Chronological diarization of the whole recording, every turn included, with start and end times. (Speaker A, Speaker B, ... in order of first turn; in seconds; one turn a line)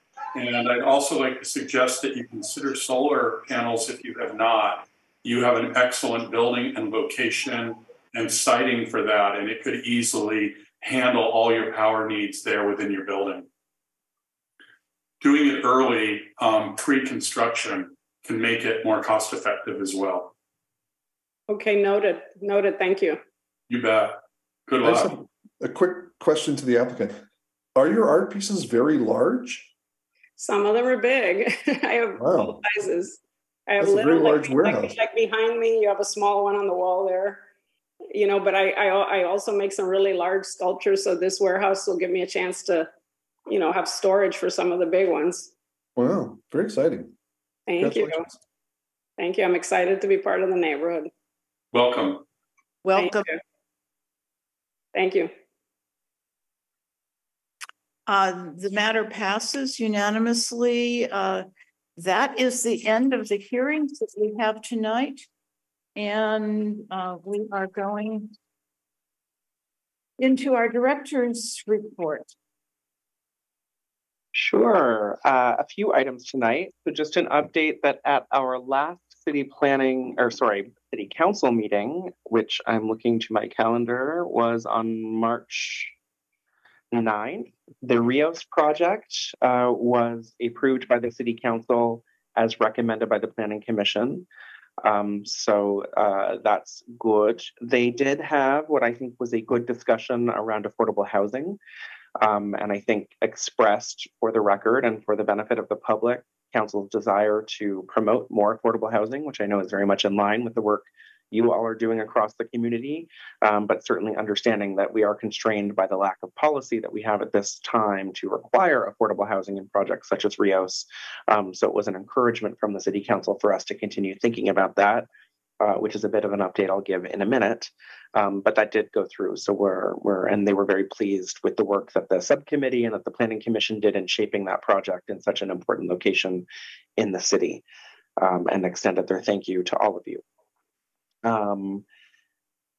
Speaker A: 0.3-13.5
Speaker A: 15.2-20.3
Speaker B: 21.5-23.2
Speaker A: 23.7-25.1
Speaker C: 24.8-27.2
Speaker C: 27.8-29.7
Speaker B: 30.4-37.4
Speaker C: 32.2-32.6
Speaker C: 33.8-35.0
Speaker B: 38.1-42.9
Speaker B: 43.5-45.5
Speaker C: 46.0-47.1
Speaker B: 47.7-48.2
Speaker C: 47.8-48.3
Speaker B: 49.2-51.1
Speaker A: 51.7-52.2
Speaker D: 52.8-53.3
Speaker B: 52.9-53.3
Speaker B: 54.9-55.3
Speaker D: 58.1-65.2
Speaker D: 66.0-68.3
Speaker D: 70.2-72.3
Speaker E: 74.3-85.9
Speaker E: 86.9-94.3
Speaker E: 94.8-101.6
Speaker E: 102.2-125.1
Speaker E: 125.6-136.4
Speaker E: 137.0-137.6
Speaker E: 138.2-140.2
Speaker E: 141.2-141.8